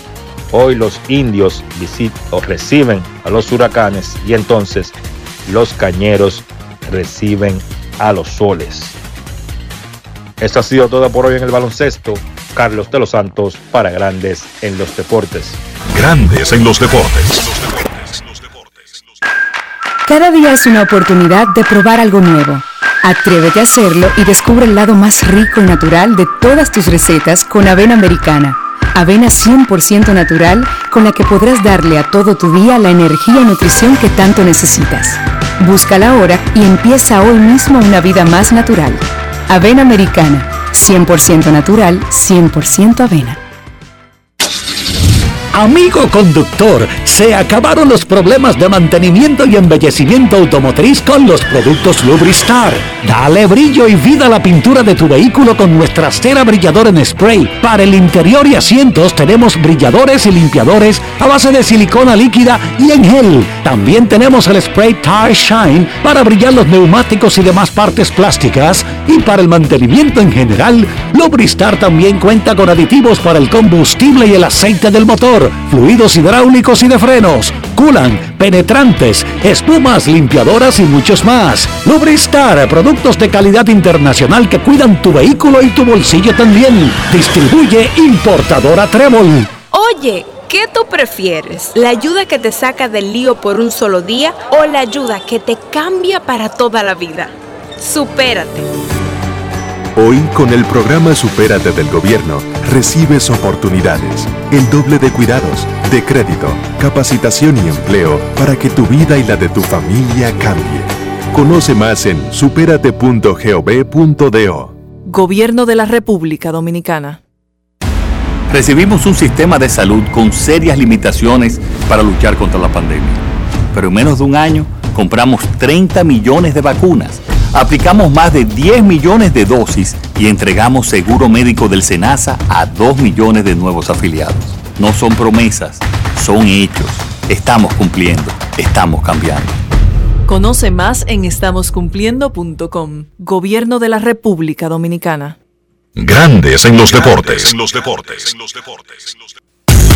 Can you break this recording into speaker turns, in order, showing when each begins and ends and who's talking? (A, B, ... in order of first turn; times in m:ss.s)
0:00.5-0:09.0 A
0:10.4-0:15.6 A
0:15.9-0:18.8 B
0:20.1-0:43.4 C
0:45.5-1:29.5 D
1:29.7-1:38.7 E
1:40.0-1:54.8 F
1:55.1-1:57.2 G
1:58.5-2:19.6 H
2:20.3-2:25.4 G
2:26.0-2:29.3 B